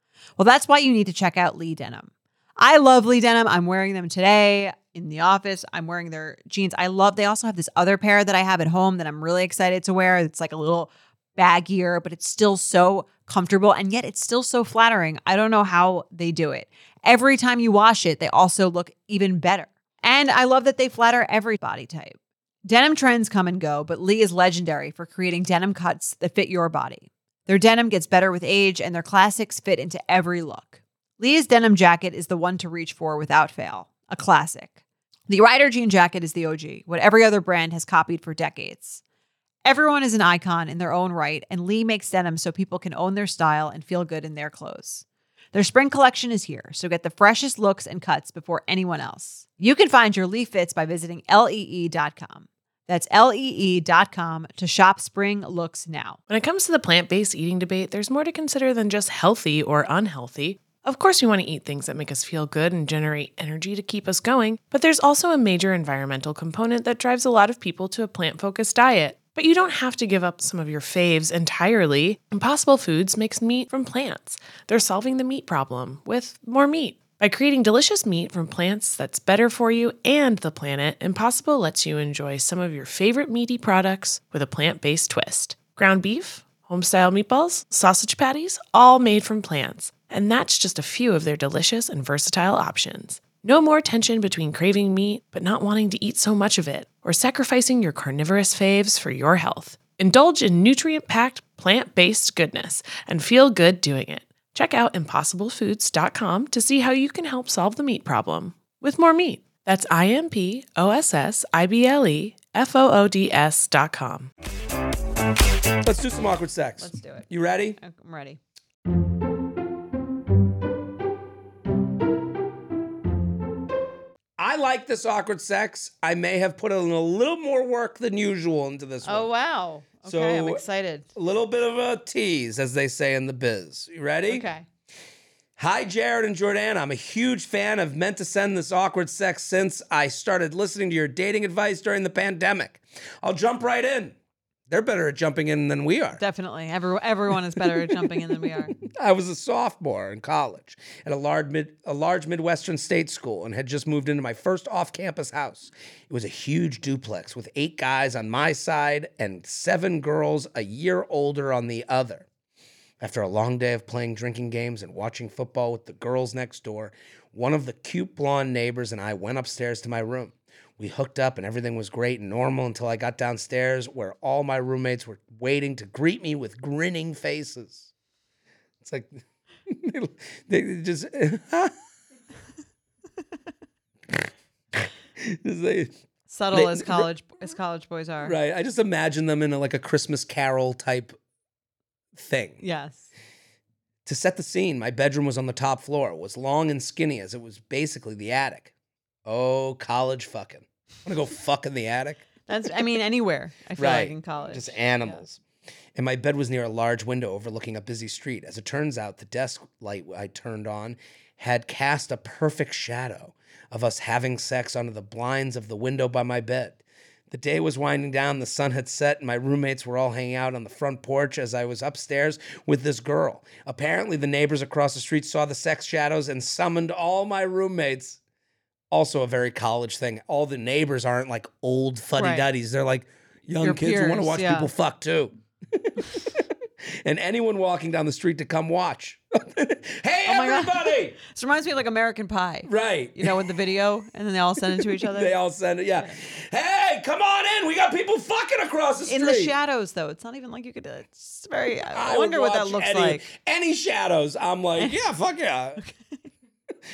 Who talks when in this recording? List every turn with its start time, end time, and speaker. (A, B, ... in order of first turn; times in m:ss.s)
0:00.4-0:34.8 A
0:35.3-0:39.0 A
0:39.6-0:56.2 A
0:56.3-1:54.3 B
1:55.8-1:57.8 C
1:56.8-1:58.4 A
2:04.4-2:09.3 C
2:09.0-2:11.1 A
2:10.0-2:10.6 C
2:11.1-2:14.4 C
2:14.3-2:14.6 A
2:15.6-2:24.2 C
2:24.7-2:26.2 C
2:26.2-2:28.8 A
2:28.8-2:42.3 C
2:43.0-2:57.9 C
2:58.8-3:01.7 C
3:04.8-3:05.9 C
3:06.3-3:08.4 A
3:06.5-3:07.1 C
3:08.2-3:11.2 C
3:12.1-3:12.6 C
3:12.6-3:13.1 A
3:14.0-3:18.7 C
3:19.2-3:22.2 C
3:22.5-3:25.2 A
3:23.8-3:25.4 C
3:25.9-3:48.2 C
3:48.9-3:56.5 C
3:52.2-3:52.4 A
3:53.6-3:54.7 A
3:57.0-4:01.2 C
4:00.2-4:05.4 A
4:02.6-4:03.5 C
4:04.6-4:09.5 C
4:09.1-4:13.3 A
4:11.9-4:15.8 C